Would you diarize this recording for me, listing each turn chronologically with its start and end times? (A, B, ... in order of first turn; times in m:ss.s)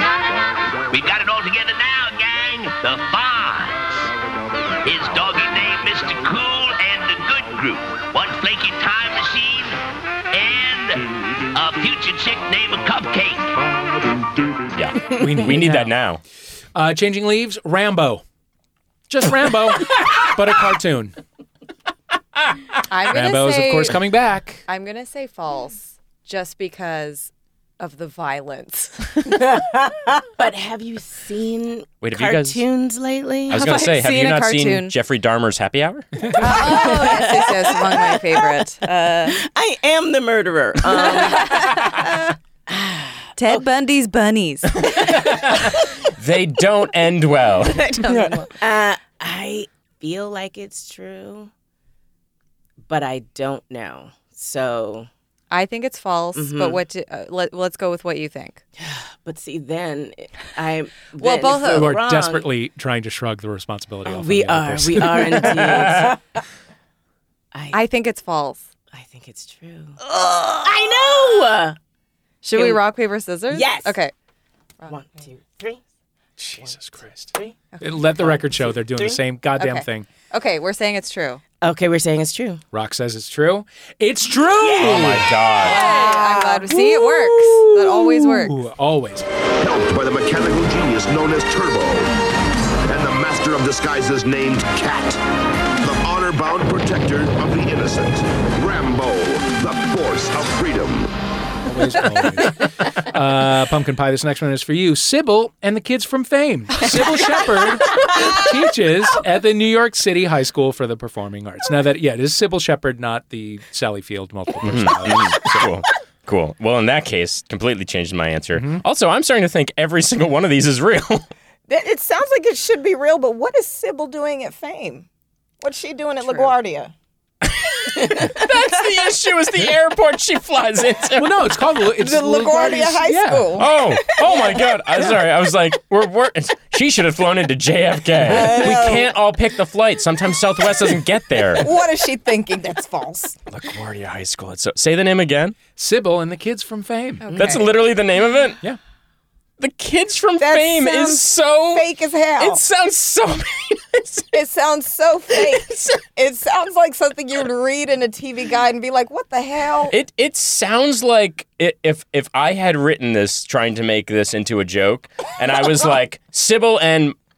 0:00.9-0:03.8 A
0:04.8-0:09.8 A
0:10.3-0:13.7 A
0:14.7-0:16.2 B
0:15.1-0:16.0 C
0:16.8-0:18.2 C
0:19.1-0:21.2 C
0:22.9-0:24.0 D
0:23.1-0:24.6 C
0:24.7-0:29.4 D
0:30.4-0:33.7 E
0:32.0-0:32.6 B
0:33.5-0:36.1 B
0:33.5-0:34.9 D
0:36.4-0:39.4 D
0:36.4-0:38.2 E
0:39.3-0:42.0 E
0:41.1-0:42.1 D
0:42.7-0:43.6 E
0:43.4-0:45.1 D
0:46.2-0:47.9 B
0:48.0-0:48.5 D
0:48.0-0:51.5 E
0:52.9-0:55.1 E
0:55.5-0:58.6 D
0:56.4-0:56.8 E
0:58.8-1:02.5 E
1:01.2-1:02.0 D
1:01.7-1:06.0 C
1:04.0-1:06.2 E
1:07.5-1:07.8 E
1:07.7-1:08.6 D
1:08.9-1:10.0 E
1:10.6-1:11.8 E
1:12.4-1:14.1 D
1:12.6-1:12.8 E
1:13.5-1:14.0 E
1:14.9-1:15.8 E
1:16.4-1:20.1 C
1:18.2-1:19.2 E
1:19.6-1:21.4 D
1:21.6-1:22.6 E
1:22.7-1:25.4 C
1:24.6-1:25.2 E
1:24.8-1:25.8 B
1:25.6-1:28.6 D
1:25.7-1:27.1 E
1:25.8-1:26.8 F
1:28.3-1:29.3 C
1:29.6-1:32.1 G
1:32.9-1:35.2 G
1:35.8-1:41.1 G
1:41.7-1:55.7 C
1:54.6-2:01.3 B
1:58.6-1:58.8 C
2:01.7-2:05.1 F
2:05.6-2:06.9 F
2:07.5-2:11.4 B
2:11.2-2:13.5 C
2:12.0-2:14.8 F
2:13.6-2:21.7 B
2:18.2-2:19.2 F
2:21.4-2:23.4 F
2:23.5-2:25.6 B
2:25.8-2:27.3 C
2:27.2-2:27.7 D
2:27.3-2:28.6 B
2:29.6-2:31.9 B
2:30.4-2:32.6 F
2:32.4-2:34.3 B
2:34.3-2:40.0 F
2:35.4-2:35.9 B
2:39.9-2:47.2 B